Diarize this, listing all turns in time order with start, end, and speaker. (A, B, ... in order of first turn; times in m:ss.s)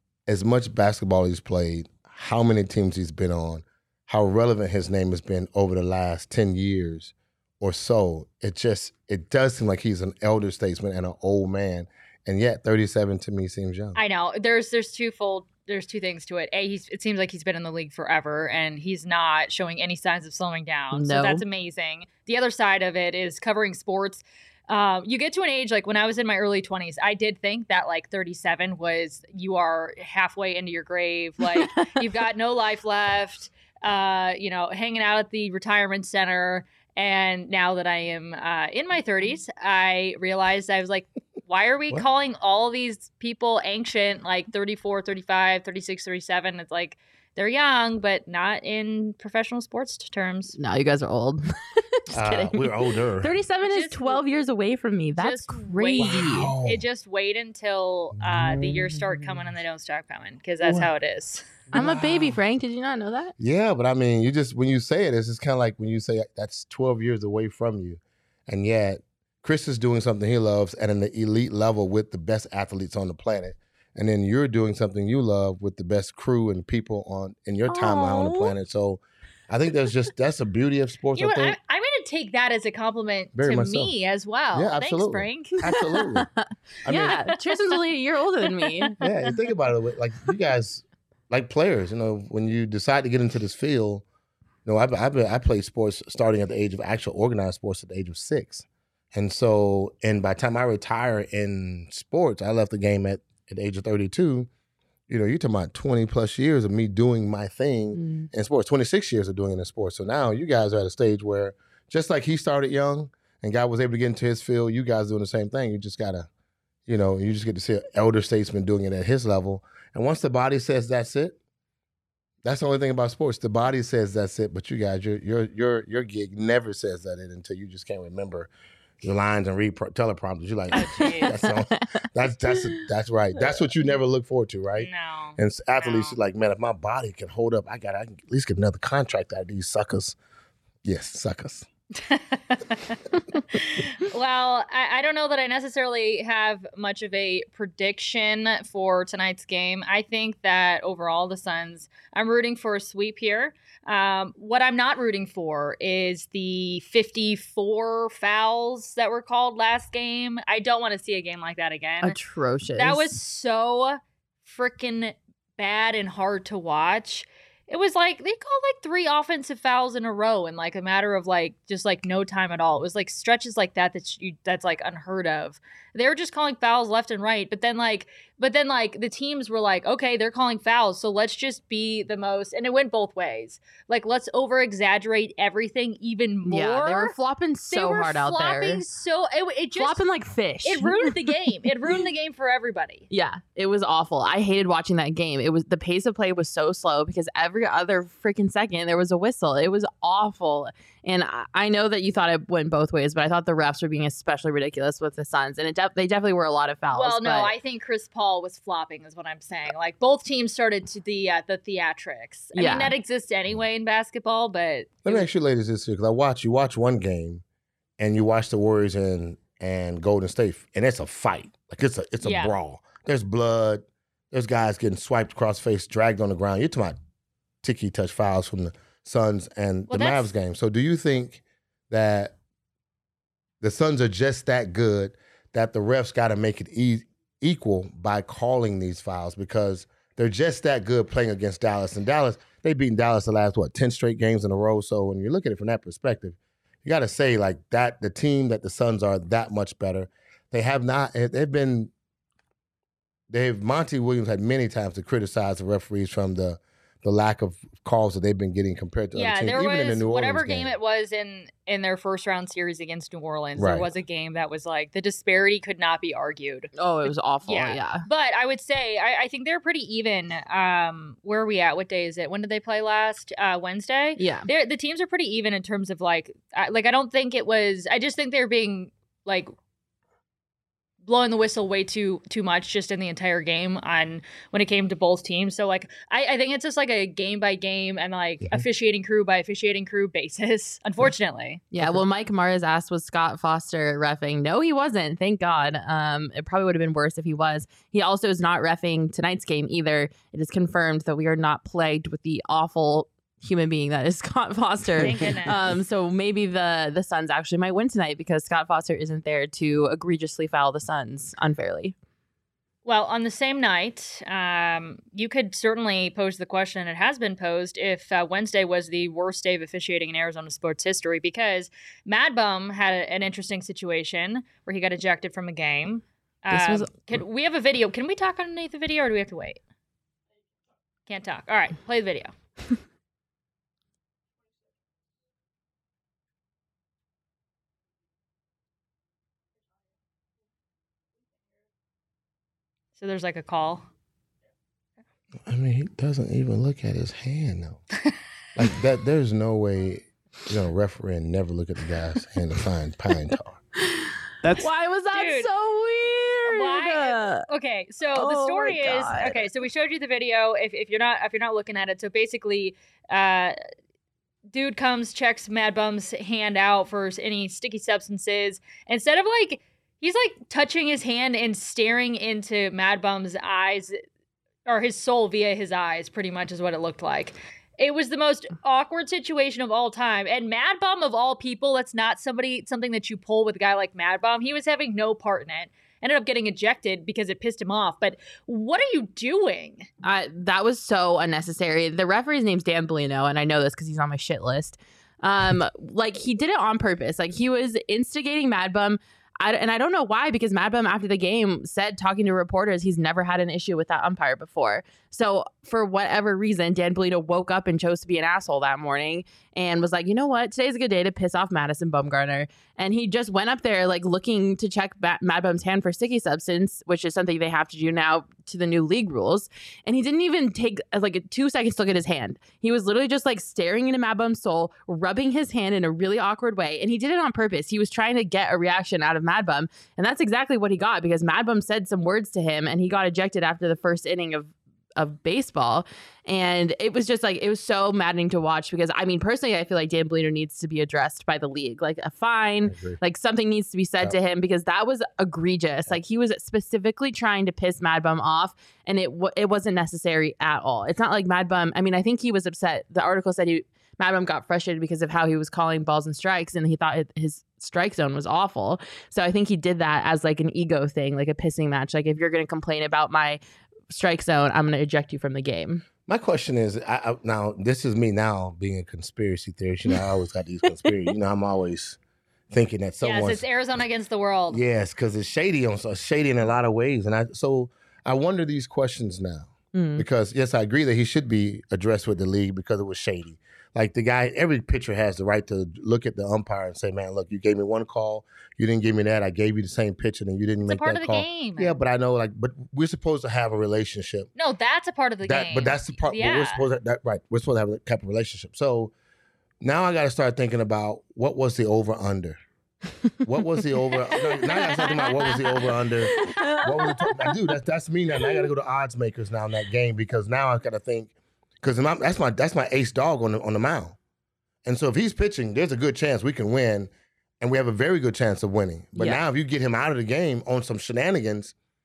0:00.3-0:14.0 A
0:14.0-0:50.6 B
0:20.9-0:21.4 C
0:31.6-0:31.9 C
0:50.6-0:56.5 C
0:52.1-0:53.3 A
0:53.6-0:54.2 B
0:55.2-1:01.6 B
0:56.0-0:56.8 A
0:58.2-0:58.9 A
1:00.6-1:00.9 A
1:01.7-1:02.4 A
1:01.7-1:03.3 C
1:03.4-1:21.6 A
1:17.7-1:18.5 C
1:21.1-1:25.7 B
1:23.3-1:23.9 A
1:24.5-1:26.3 A
1:25.7-1:29.0 C
1:26.8-1:27.2 A
1:26.9-1:27.8 B
1:28.4-1:29.1 B
1:29.0-1:34.0 A
1:34.6-1:44.5 A
1:45.1-1:56.3 A
1:48.0-1:48.3 C
1:56.9-2:01.4 A
2:02.4-2:08.5 A
2:09.0-2:20.2 A
2:10.7-2:11.4 B
2:11.0-2:11.9 C
2:12.5-2:12.8 C
2:14.8-2:16.2 B
2:20.8-2:21.7 A
2:22.0-2:23.0 B
2:23.5-2:42.2 B
2:42.0-2:43.1 C
2:42.8-3:07.1 B
3:06.4-3:08.8 C
3:07.7-3:10.0 B
3:09.7-3:11.4 C
3:10.6-3:13.1 B
3:13.1-3:27.6 C
3:26.9-3:35.3 B
3:32.5-3:32.9 C
3:35.0-3:37.4 A
3:38.0-3:47.0 A
3:42.2-3:42.5 B
3:47.6-3:52.4 A
3:49.9-3:50.3 B
3:53.6-4:11.9 A
4:13.3-4:20.7 A
4:19.1-4:26.7 B
4:23.6-4:23.9 A
4:26.8-4:28.0 C
4:27.4-4:39.5 B
4:34.2-4:34.5 C
4:41.0-4:51.6 B
4:51.7-5:11.9 C
5:05.0-5:05.6 B
5:12.8-5:29.6 B
5:26.5-5:26.9 C
5:31.1-5:32.3 B
5:43.0-5:43.8 B
5:45.5-5:47.8 A
5:48.5-5:53.6 A
5:53.8-5:57.5 C
5:55.1-5:55.5 B
5:56.4-6:03.6 B
5:58.1-5:59.5 C
6:04.5-6:14.0 B
6:14.6-6:29.9 B
6:30.0-7:43.4 C
7:22.7-7:23.0 A
7:43.9-7:45.8 C
7:46.1-7:52.0 A
7:52.5-7:53.4 A
7:53.0-7:54.6 B
7:54.5-8:14.3 A
7:59.7-8:00.0 C
8:10.6-8:11.7 B
8:14.4-8:16.6 B
8:15.2-8:18.9 A
8:19.6-8:22.4 A
8:23.2-8:34.0 A
8:24.1-8:25.5 B
8:26.1-8:27.3 C
8:34.6-8:41.5 A